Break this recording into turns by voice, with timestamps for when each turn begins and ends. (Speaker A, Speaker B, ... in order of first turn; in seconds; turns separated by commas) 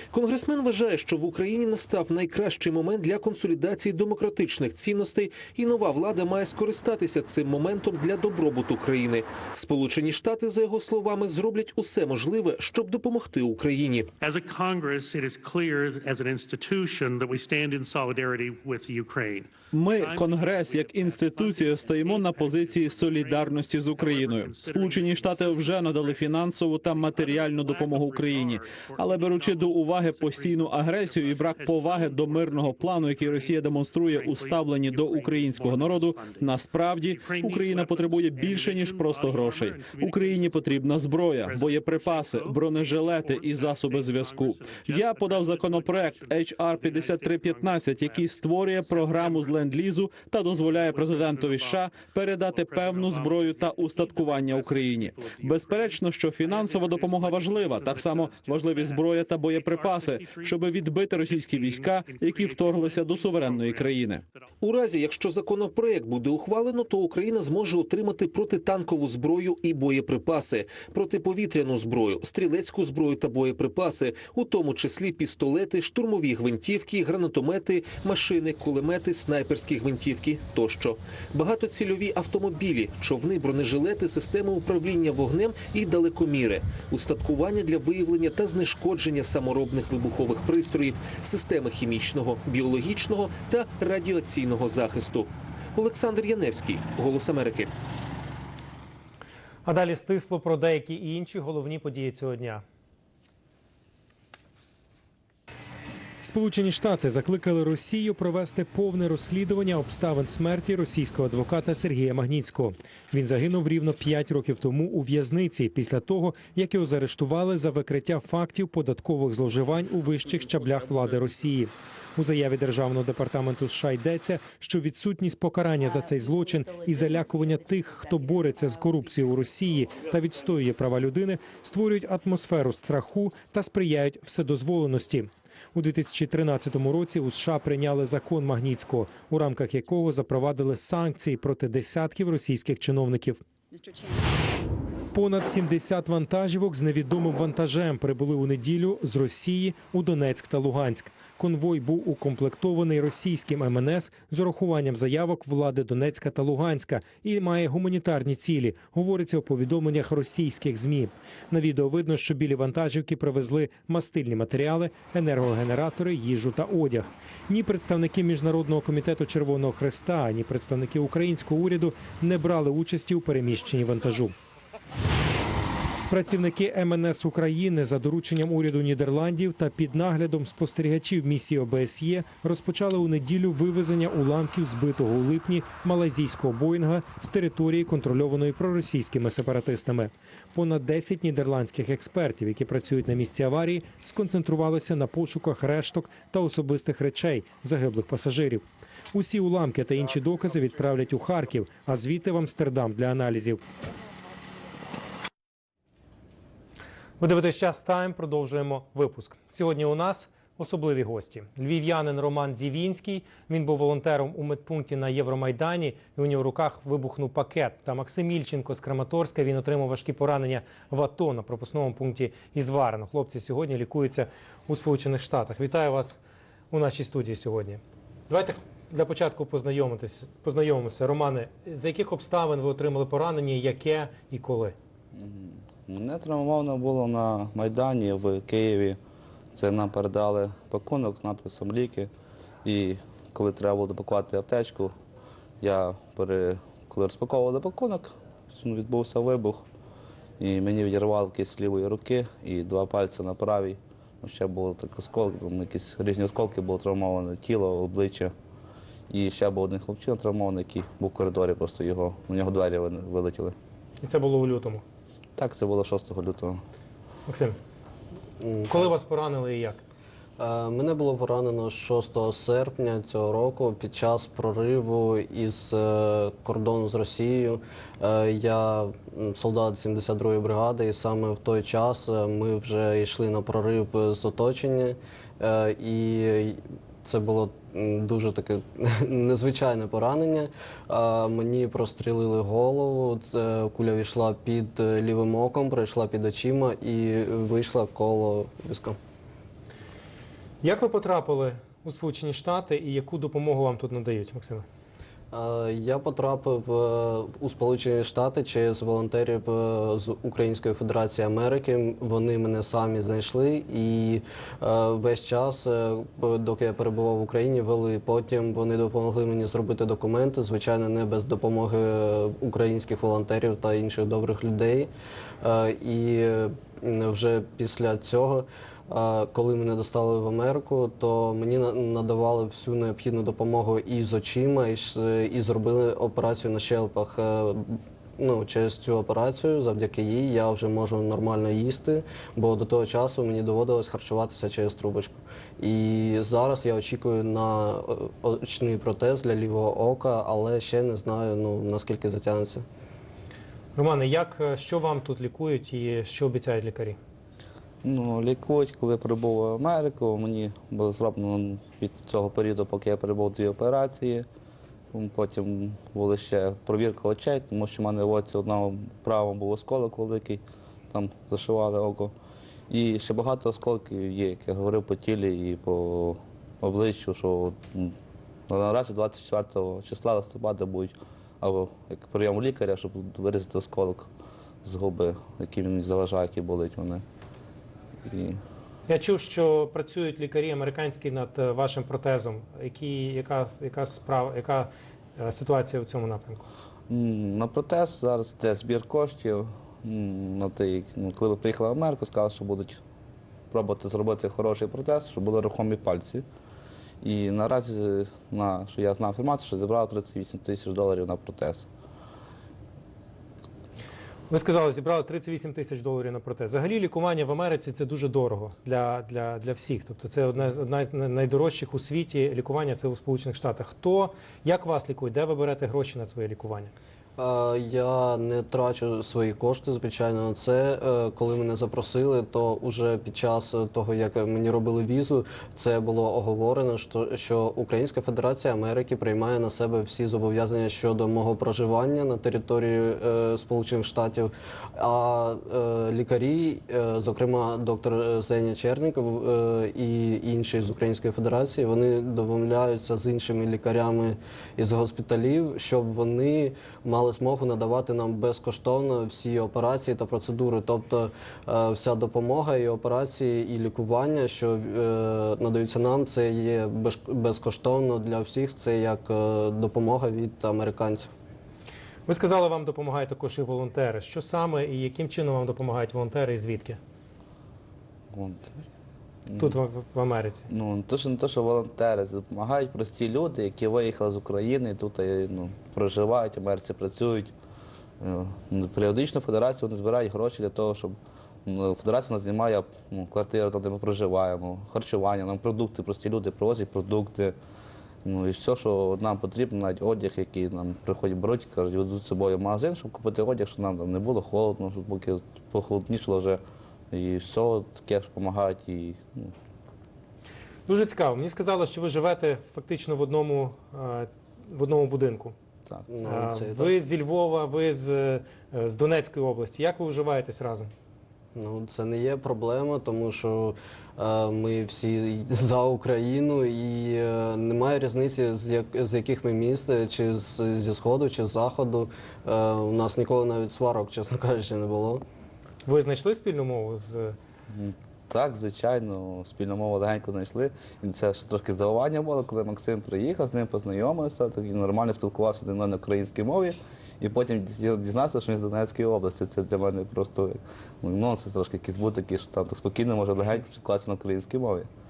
Speaker A: 0.1-14.1, Speaker B: 14.2-49.6, Speaker C: 19.7-64.2, Speaker B: 50.5-64.5, Speaker A: 64.6-97.7, Speaker D: 99.6-102.6, Speaker D: 106.2-143.4, Speaker D: 145.1-174.3, Speaker D: 176.1-203.6, Speaker D: 207.2-226.2, Speaker D: 226.7-234.7, Speaker E: 235.1-239.0, Speaker E: 239.5-242.1, Speaker E: 242.6-244.9, Speaker E: 245.6-249.6, Speaker E: 250.4-258.3, Speaker E: 259.1-263.5, Speaker D: 264.0-264.8, Speaker E: 265.4-266.6, Speaker D: 267.3-267.6, Speaker F: 268.4-268.9, Speaker D: 268.7-269.8, Speaker F: 270.4-299.0, Speaker D: 300.6-304.6, Speaker F: 305.3-324.9, Speaker F: 325.4-352.6, Speaker D: 353.7-357.0, Speaker E: 357.8-364.2, Speaker E: 364.9-372.1, Speaker E: 372.7-377.9, Speaker E: 378.5-384.1, Speaker E: 384.6-387.0, Speaker E: 388.1-388.4, Speaker D: 388.9-396.4, Speaker E: 396.9-402.8, Speaker E: 403.5-406.2, Speaker E: 407.0-411.7, Speaker D: 414.3-426.7, Speaker F: 427.2-471.1, Speaker D: 472.1-476.8, Speaker E: 478.1-478.6, Speaker E: 479.3-479.6, Speaker D: 479.4-480.5, Speaker E: 480.5-487.3, Speaker E: 488.0-497.4, Speaker E: 498.0-506.4, Speaker E: 506.9-509.3, Speaker D: 510.7-515.3, Speaker F: 515.9-516.7, Speaker D: 516.0-520.7, Speaker F: 521.3-535.0, Speaker D: 535.6-537.1, Speaker E: 537.5-554.7